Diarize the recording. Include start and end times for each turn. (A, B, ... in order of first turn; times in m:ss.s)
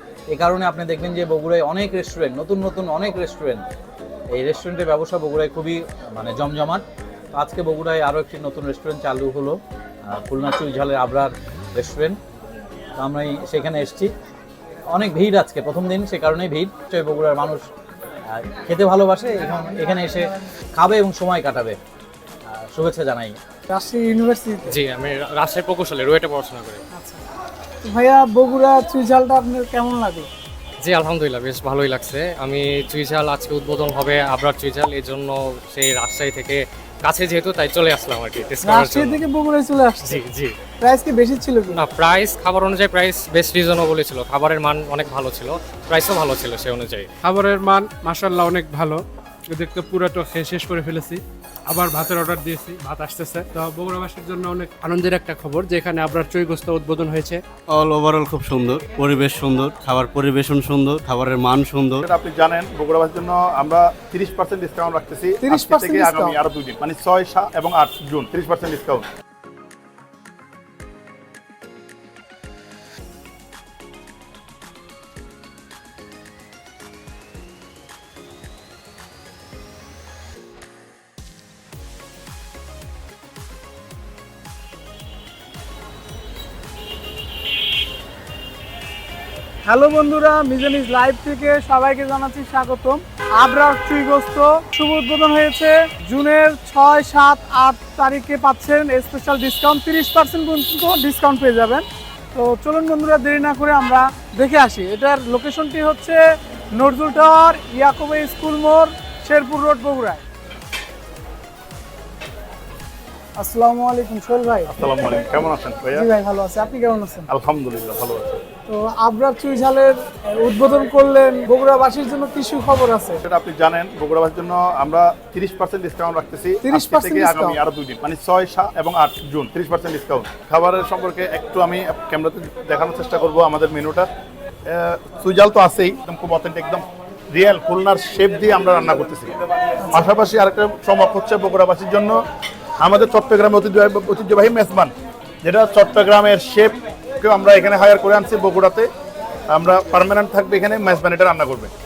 0:00.3-0:03.6 A
0:04.4-0:09.6 A
0:10.1-0:12.2 A
0:13.0-0:14.1 A
0:14.9-0:17.6 A
0:18.3-0:21.8 A
0:22.5-0:23.3 A
0:23.7-0:24.6 B
0:24.7-0:26.8 C
0:27.9-0:30.3 B
0:30.8-0:39.2 C
0:38.6-0:39.9 B
0:40.0-0:40.5 C
0:40.9-0:41.6 B
0:41.7-0:47.1 C
0:47.2-0:49.0 D
0:49.5-0:57.4 D
0:57.8-1:02.0 E
1:02.0-1:09.1 F
1:05.4-1:06.3 B
1:29.8-1:41.8 B
1:42.4-1:46.2 B
1:46.8-1:50.2 B
1:53.4-1:54.6 B
1:54.7-1:56.1 F
1:56.3-1:57.2 B
1:57.3-1:58.4 F
1:58.7-2:03.2 B
2:03.2-2:14.1 F
2:06.7-2:07.5 B
2:14.7-2:19.3 F
2:19.9-2:22.2 F
2:22.8-2:24.9 F
2:25.4-2:28.9 F
2:29.5-2:31.7 F